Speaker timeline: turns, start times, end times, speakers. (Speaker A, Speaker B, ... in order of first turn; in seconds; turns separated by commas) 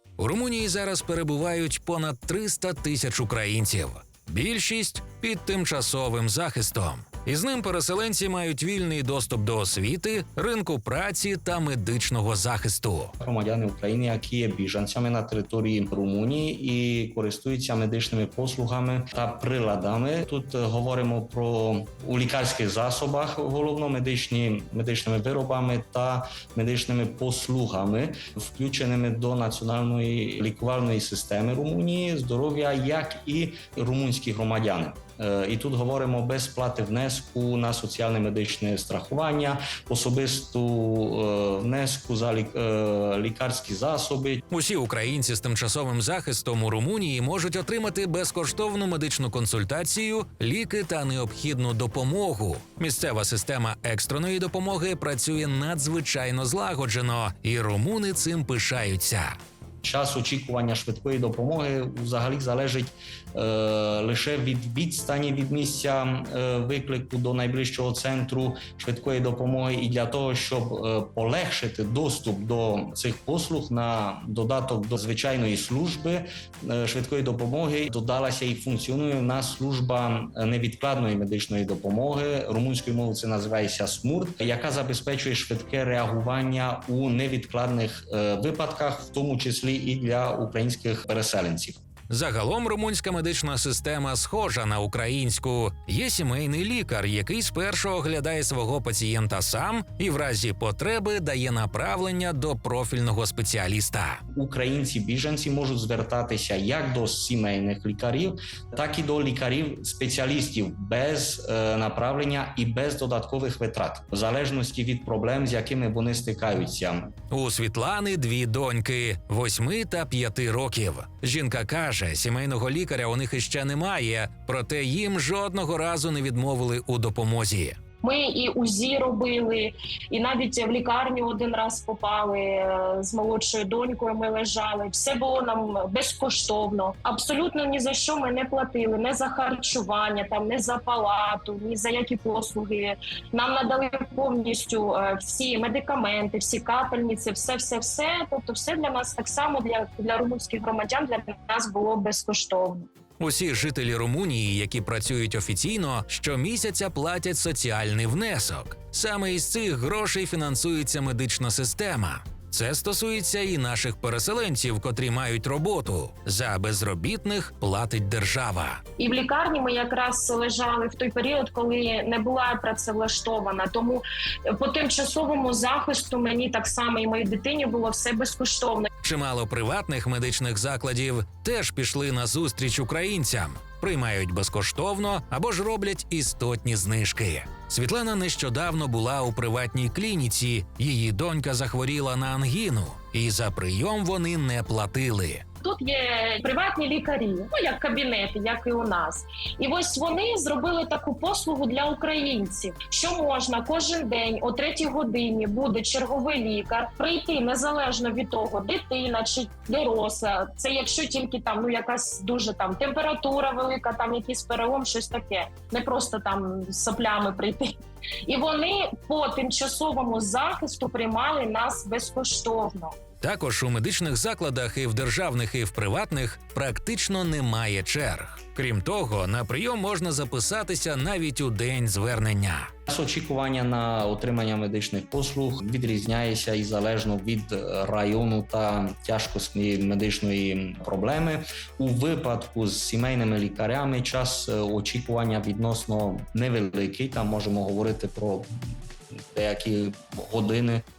Speaker A: 0.2-13.1, Speaker B: 13.2-44.4, Speaker A: 44.5-59.4, Speaker B: 59.8-91.8, Speaker A: 92.1-104.2, Speaker B: 104.3-117.1, Speaker A: 117.3-127.8, Speaker C: 128.0-152.9, Speaker A: 153.2-168.8, Speaker C: 169.0-178.9, Speaker A: 179.0-195.4, Speaker C: 195.6-217.7, Speaker C: 218.2-223.0, Speaker A: 223.2-232.7, Speaker B: 232.9-248.7, Speaker B: 249.3-250.8